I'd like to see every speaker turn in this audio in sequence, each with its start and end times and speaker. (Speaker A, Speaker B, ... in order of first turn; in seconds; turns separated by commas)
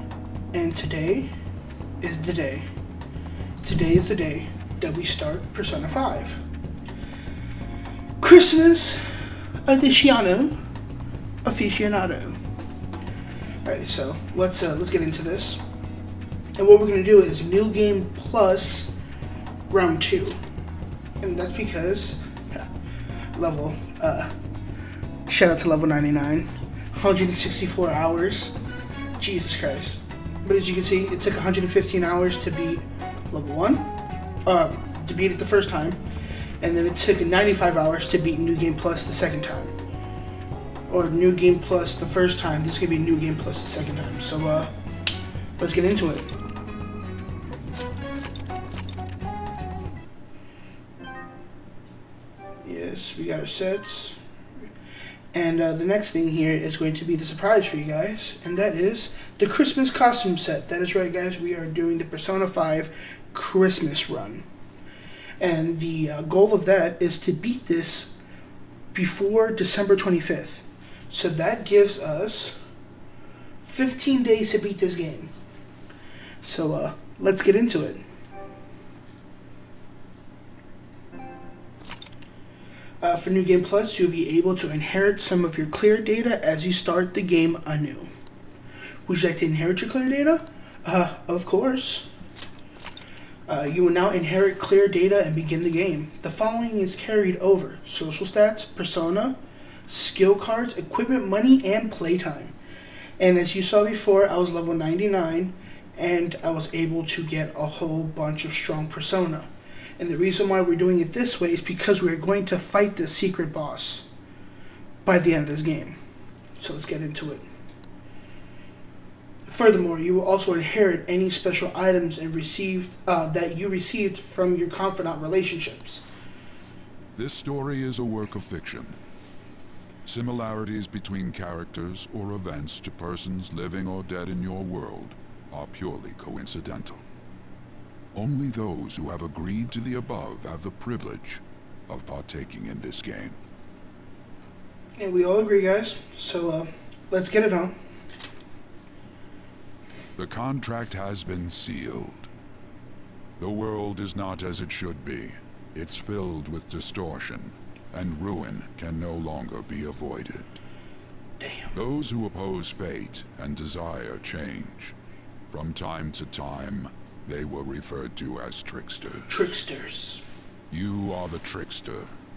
Speaker A: 0.5-1.3, Speaker A: 2.0-2.7, Speaker A: 3.6-6.4, Speaker A: 8.2-9.0, Speaker A: 9.7-10.6, Speaker A: 11.4-12.4, Speaker A: 13.6-15.6, Speaker A: 16.6-18.9, Speaker A: 19.7-20.4, Speaker A: 21.2-22.7, Speaker A: 23.3-24.4, Speaker A: 25.3-28.6, Speaker A: 29.2-33.9, Speaker A: 34.5-36.0, Speaker A: 36.6-39.7, Speaker A: 40.9-44.7, Speaker A: 45.6-46.3, Speaker A: 52.6-54.2, Speaker A: 55.3-64.5, Speaker A: 65.4-68.1, Speaker A: 68.9-72.6, Speaker A: 73.6-75.3, Speaker A: 76.4-78.0, Speaker A: 83.0-88.1, Speaker A: 89.1-92.1, Speaker A: 93.5-102.6, Speaker A: 103.2-114.1, Speaker A: 115.0-116.0, Speaker A: 116.6-117.5, Speaker A: 119.5-126.0, Speaker B: 127.2-129.0, Speaker B: 130.1-137.0, Speaker B: 138.1-143.4, Speaker A: 145.0-147.8, Speaker B: 150.2-152.3, Speaker B: 153.4-160.6, Speaker A: 161.4-161.7, Speaker B: 161.7-164.9, Speaker B: 165.5-169.3, Speaker A: 169.3-170.2, Speaker B: 170.7-172.1